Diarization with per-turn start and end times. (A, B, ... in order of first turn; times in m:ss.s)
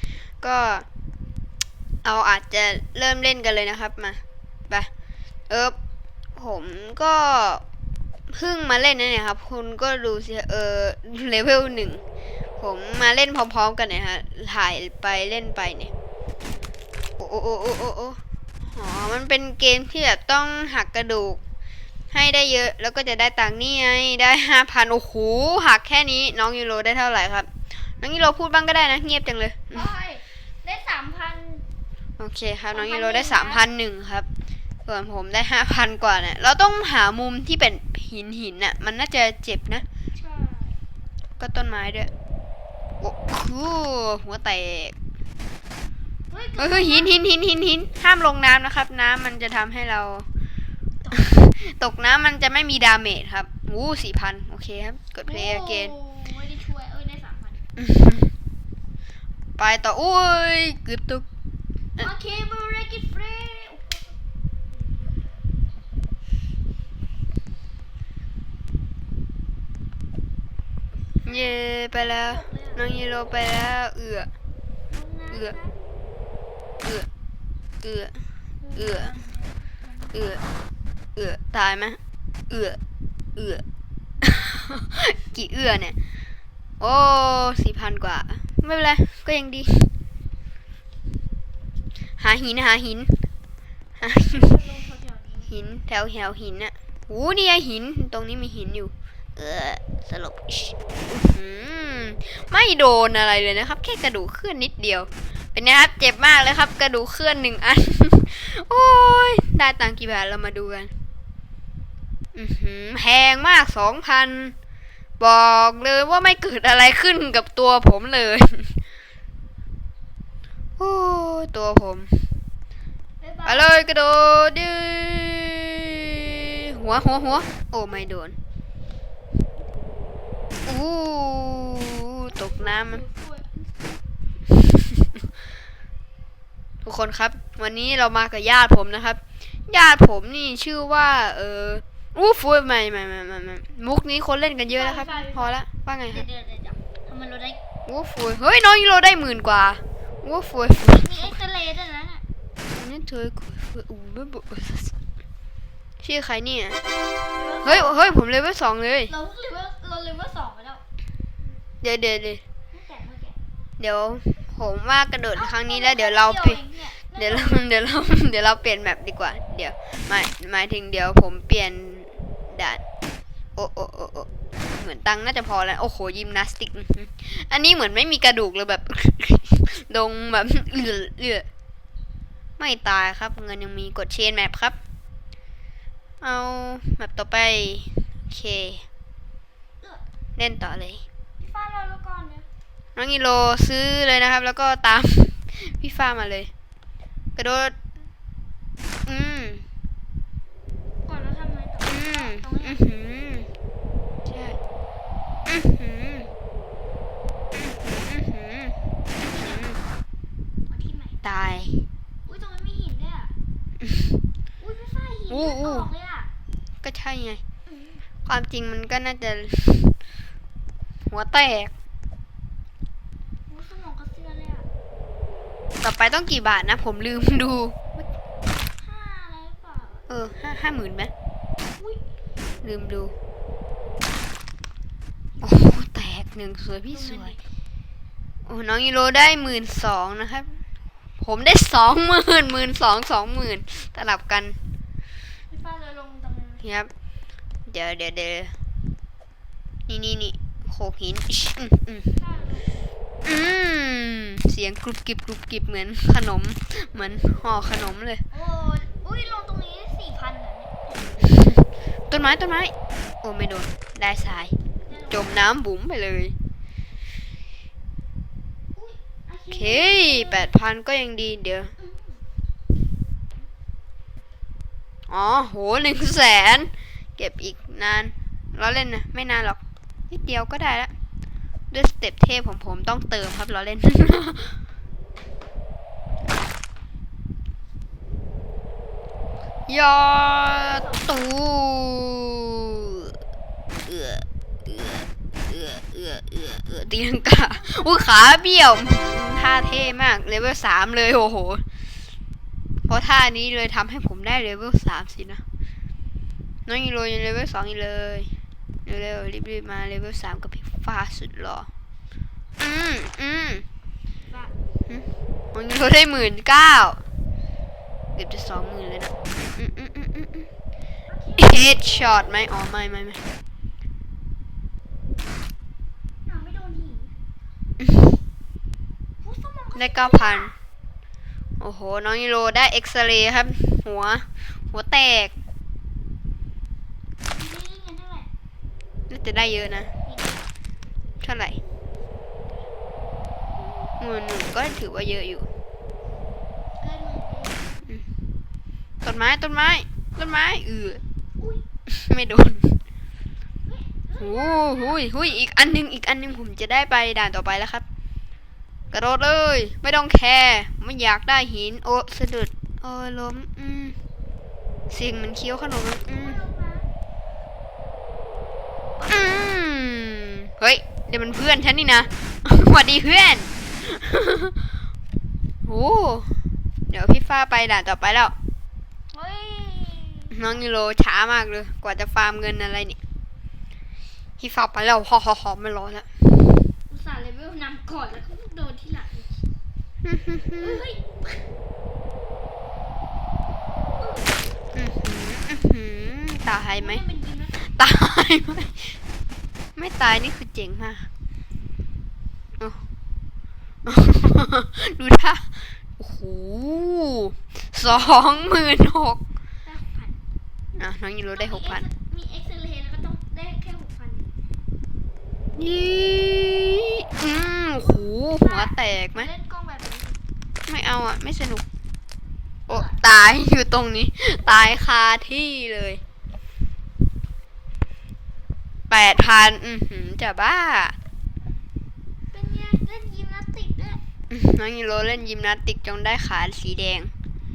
0:00.4-0:00.9 A
0:02.0-0:04.9 A
0:05.5-0:05.8 A
0:06.4-0:07.6 A
0:08.3-0:12.0 A
0:12.6-0:15.9 A
0:17.2-0:21.4 A
0:22.1-0:29.9 A
0:29.7-0:31.6 B
0:32.2-0:34.3 A
0:32.7-0:33.6 B
0:34.9-0:39.8 A
0:40.1-0:40.8 B
0:41.4-0:42.1 A
0:43.0-0:45.0 A
0:46.3-0:47.2 B
0:46.6-0:50.3 A
0:51.0-0:51.3 B
0:51.1-0:55.9 A
0:55.2-0:57.7 B
0:57.8-0:58.3 A
0:59.6-1:01.2 A
1:02.0-1:04.2 B
1:04.7-1:05.1 B
1:11.1-1:13.0 B
1:11.3-1:14.3 A
1:14.9-1:15.8 B
1:15.3-1:15.6 A
1:17.8-1:18.2 A
1:18.6-1:20.2 B
1:18.8-1:19.2 A
1:20.1-1:20.4 A
1:21.2-1:22.0 A
1:22.5-1:22.8 A
1:23.4-1:23.6 A
1:24.2-1:26.0 A
1:26.8-1:29.9 A
1:32.2-1:33.1 A
1:34.0-1:34.5 A
1:34.0-1:35.5 B
1:35.5-1:50.9 A
1:52.3-1:54.6 A
1:55.2-1:58.8 A
2:00.8-2:02.2 A
2:03.2-2:03.8 B
2:03.5-2:08.4 A
2:10.7-2:13.0 A
2:12.3-2:14.0 B
2:16.8-2:26.2 A
2:24.7-2:25.6 B
2:26.1-2:27.6 B
2:27.9-2:31.4 A
2:30.8-2:32.2 B
2:32.8-2:34.9 A
2:36.0-2:36.8 A
2:37.3-2:38.2 B
2:37.6-2:39.1 A
2:39.1-2:40.8 B
2:41.8-2:42.4 A
2:42.7-2:43.4 B
2:43.8-2:46.6 A
2:45.4-2:47.6 B
2:47.2-2:52.8 A
2:53.6-3:01.5 A
3:02.6-3:04.8 A
3:06.2-3:08.8 A
3:10.4-3:11.0 A
3:11.4-3:12.5 B
3:13.0-3:16.5 A
3:17.4-3:17.8 A
3:19.1-3:19.6 A
3:21.0-3:22.8 B
3:21.9-3:23.5 A
3:24.3-3:24.6 A
3:25.5-3:26.3 A
3:27.6-3:29.8 A
3:29.2-3:29.8 B
3:30.7-3:31.2 B
3:31.2-3:31.7 A
3:32.3-3:33.3 B
3:34.6-3:36.3 B
3:35.3-3:35.9 A
3:36.8-3:37.4 A
3:37.7-3:38.1 B
3:38.2-3:39.9 A
3:41.1-3:41.7 A
3:43.5-3:44.7 B
3:45.8-3:48.1 A
3:48.8-3:50.1 B
3:50.1-3:51.1 A
3:51.8-3:52.0 B
3:52.6-3:53.2 A
3:55.4-3:57.4 A
3:56.9-3:57.4 B
3:58.4-4:00.6 A
4:01.2-4:04.6 A
4:05.5-4:06.7 B
4:06.6-4:06.9 A
4:07.7-4:08.5 A
4:09.9-4:12.2 A
4:12.2-4:12.9 B
4:13.2-4:18.2 A
4:18.3-4:21.0 B
4:21.2-4:24.6 A
4:24.9-4:25.4 B
4:25.1-4:26.3 A
4:28.8-4:30.5 B
4:29.5-4:31.7 A
4:31.8-4:32.2 B
4:35.1-4:39.6 A
4:40.1-4:40.9 A
4:41.7-4:44.6 A
4:49.7-4:53.1 A
4:50.6-4:51.3 B
4:53.9-5:01.6 A
4:57.4-4:58.3 B
5:02.9-5:05.4 A
5:06.7-5:08.3 A
5:08.9-5:11.7 A
5:12.6-5:13.6 A
5:14.3-5:14.5 B
5:14.9-5:17.0 A
5:18.2-5:20.5 A
5:21.1-5:22.4 B
5:21.4-5:23.2 A
5:26.3-5:27.1 B
5:29.2-5:30.6 B
5:29.8-5:30.5 A
5:31.6-5:35.3 A
5:37.4-5:38.3 B
5:39.1-5:39.9 A
5:40.1-5:40.4 B
5:41.2-5:41.6 A
5:44.0-5:45.5 A
5:46.8-5:47.9 B
5:49.0-5:51.0 A
5:51.4-5:51.6 B
5:51.9-5:52.8 A
5:53.6-5:55.3 B
5:54.2-5:57.8 A
5:58.9-6:04.0 A
6:04.9-6:06.4 A
6:06.1-6:06.9 B
6:09.0-6:14.6 A
6:15.6-6:16.3 A
6:16.9-6:18.4 A
6:19.1-6:20.6 B
6:20.3-6:23.0 A
6:24.4-6:26.1 A
6:26.9-6:29.4 B
6:30.0-6:30.8 A
6:30.6-6:31.4 B
6:34.0-6:34.4 B
6:34.7-6:37.0 A
6:36.7-6:37.6 B
6:37.6-6:39.0 A
6:39.8-6:41.1 A
6:43.9-6:49.2 A
6:47.8-6:48.6 B
6:49.6-6:50.2 B
6:50.8-6:51.9 A
6:51.4-6:54.3 B
6:55.6-6:59.3 A
6:57.8-7:00.2 B
7:00.7-7:01.6 A
7:02.7-7:03.0 B
7:02.7-7:06.0 A
7:08.9-7:11.0 A
7:12.3-7:14.0 B
7:14.3-7:17.1 A